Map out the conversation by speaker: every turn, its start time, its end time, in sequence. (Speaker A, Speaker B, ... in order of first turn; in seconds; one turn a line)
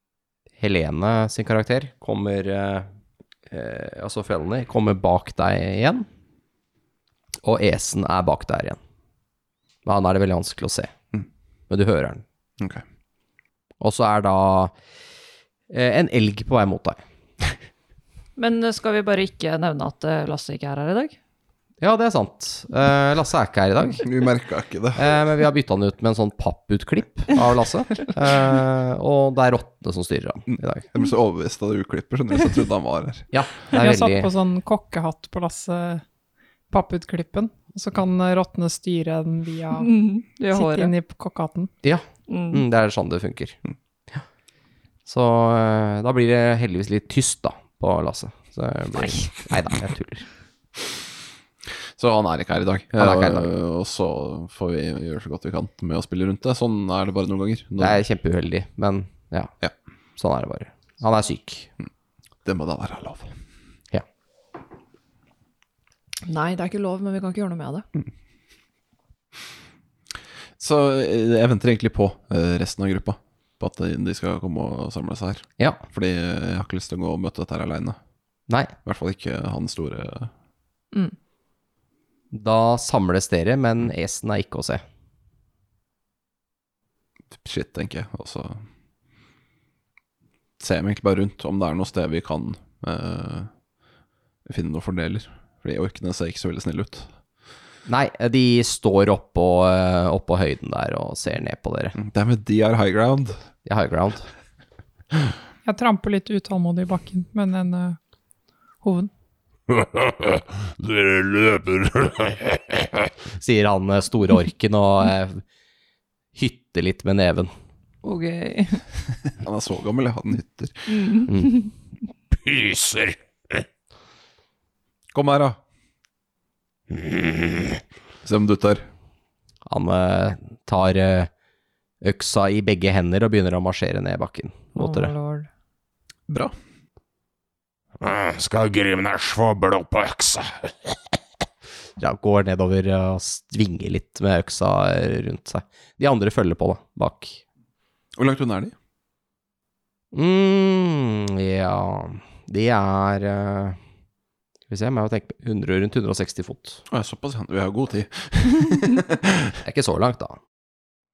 Speaker A: 0.6-2.9
Speaker A: 3.5-6.1
Speaker A: 7.4-8.8
Speaker A: 9.9-10.9
Speaker A: 11.7-12.2
Speaker A: 13.8-14.7
Speaker A: 15.7-17.0
Speaker B: 18.4-21.2
Speaker A: 21.8-24.1
Speaker C: 24.0-25.1
Speaker A: 25.0-30.9
Speaker C: 30.5-33.3
Speaker A: 33.3-34.3
Speaker D: 33.7-36.0
Speaker D: 36.7-39.9
Speaker B: 39.8-40.9
Speaker D: 40.5-41.7
Speaker A: 41.8-43.6
Speaker B: 42.3-42.6
Speaker A: 45.1-50.3
Speaker C: 52.0-58.0
Speaker A: 53.0-53.5
Speaker A: 57.8-59.5
Speaker A: 60.2-61.7
Speaker C: 62.5-63.4
Speaker B: 66.3-67.9
Speaker C: 70.6-78.0
Speaker C: 78.8-80.3
Speaker A: 82.3-84.8
Speaker C: 87.4-88.6
Speaker C: 90.6-93.5
Speaker C: 94.5-97.1
Speaker A: 97.9-102.0
Speaker C: 102.0-103.4
Speaker A: 103.7-104.3
Speaker D: 105.6-108.0
Speaker D: 108.8-109.1
Speaker E: 109.7-113.0
Speaker A: 113.4-115.4
Speaker A: 116.3-117.5
Speaker B: 118.0-118.8
Speaker C: 119.4-120.9
Speaker B: 120.9-121.7
Speaker A: 121.3-121.6
Speaker E: 122.3-123.6
Speaker C: 125.1-125.6
Speaker E: 126.9-127.8
Speaker C: 128.2-128.8
Speaker A: 129.7-131.3
Speaker A: 132.0-135.1
Speaker B: 134.8-135.5
Speaker C: 136.3-136.5
Speaker E: 138.0-141.0
Speaker A: 142.0-147.4
Speaker C: 148.2-148.8
Speaker A: 150.1-153.8
Speaker A: 154.7-156.8
Speaker C: 156.9-159.6
Speaker A: 159.6-160.4